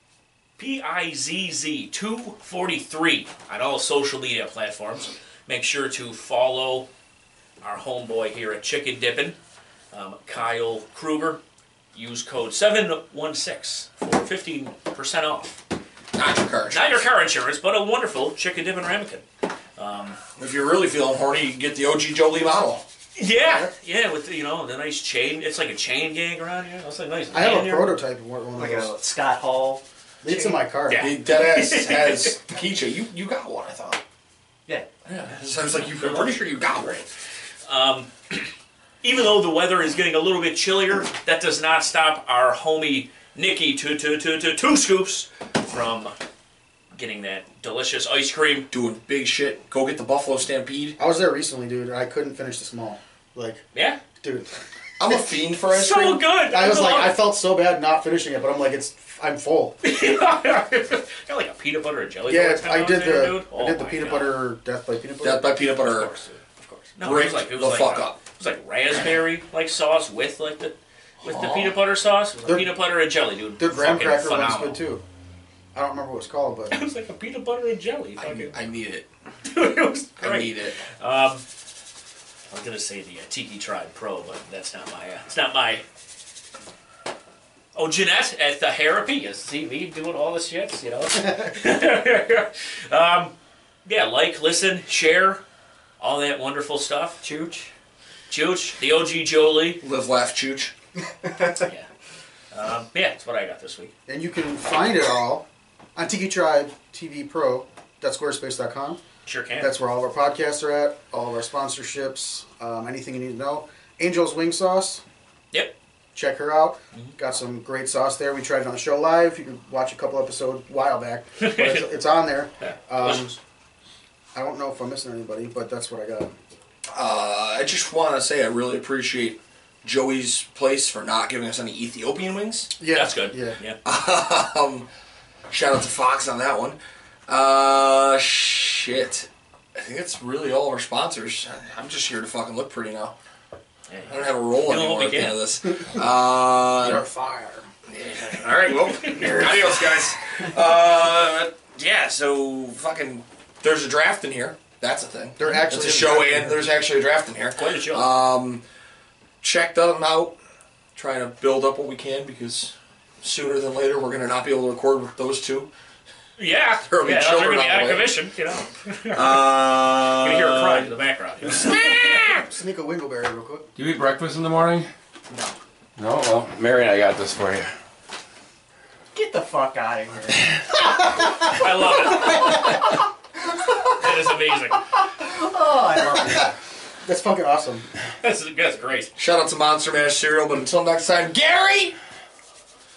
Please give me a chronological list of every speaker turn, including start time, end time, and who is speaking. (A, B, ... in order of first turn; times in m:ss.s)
0:00.6-0:06.9 A
0:07.6-0:09.4 A
0:09.9-0:11.4 A
0:11.9-0:15.6 A
0:16.1-0:17.0 B
0:16.7-0:19.2 A
0:19.8-0:20.2 A
0:20.4-0:22.8 B
0:23.2-0:28.0 A
0:27.3-0:28.9 C
0:28.6-0:30.4 D
0:30.2-0:31.1 C
0:30.9-0:32.4 A
0:30.9-0:34.0 B
0:35.1-0:37.1 B
0:37.6-0:38.5 A
0:39.0-0:46.1 A
0:46.9-0:48.7 A
0:48.7-0:51.0 B
0:51.0-0:53.6 C
0:53.7-0:54.0 A
0:54.2-0:54.6 C
0:55.0-0:56.2 B
0:55.7-0:57.2 A
0:56.5-0:59.8 C
0:59.8-1:04.4 A
1:02.2-1:05.5 C
1:05.2-1:06.1 B
1:05.8-1:14.8 A
1:07.0-1:08.2 B
1:11.2-1:11.8 B
1:13.6-1:15.0 C
1:15.7-1:16.8 C
1:16.7-1:18.6 A
1:18.2-1:19.1 B
1:19.5-1:21.4 A
1:20.2-1:20.8 B
1:22.5-1:25.8 A
1:27.7-1:33.3 A
1:33.8-1:35.4 A
1:36.0-1:37.2 A
1:37.2-1:37.7 D
1:38.3-1:39.8 A
1:39.8-1:40.7 B
1:41.6-1:41.9 A
1:42.5-1:43.9 A
1:44.1-1:49.0 C
1:49.2-1:49.7 A
1:49.6-1:55.0 C
1:56.1-2:03.4 C
2:01.4-2:02.0 A
2:02.6-2:03.2 A
2:04.3-2:06.3 C
2:06.9-2:12.7 B
2:12.8-2:13.6 C
2:12.9-2:13.8 A
2:13.8-2:14.9 B
2:15.5-2:23.1 B
2:23.9-2:25.4 A
2:24.1-2:27.0 B
2:26.8-2:27.7 C
2:27.9-2:38.6 B
2:29.0-2:29.7 A
2:35.4-2:36.7 C
2:37.6-2:38.1 A
2:39.4-2:40.4 B
2:40.9-2:45.7 B
2:46.4-2:52.4 A
2:46.9-2:48.1 B
2:49.1-2:50.9 B
2:51.4-2:52.4 B
2:52.4-2:53.7 C
2:53.8-2:54.9 E
2:55.3-2:55.6 D
2:56.0-2:57.7 E
2:59.1-3:00.5 D
3:01.4-3:03.0 A
3:02.2-3:02.5 C
3:03.9-3:04.8 A
3:04.7-3:06.5 D
3:07.0-3:07.9 C
3:08.2-3:09.1 A
3:09.2-3:12.0 B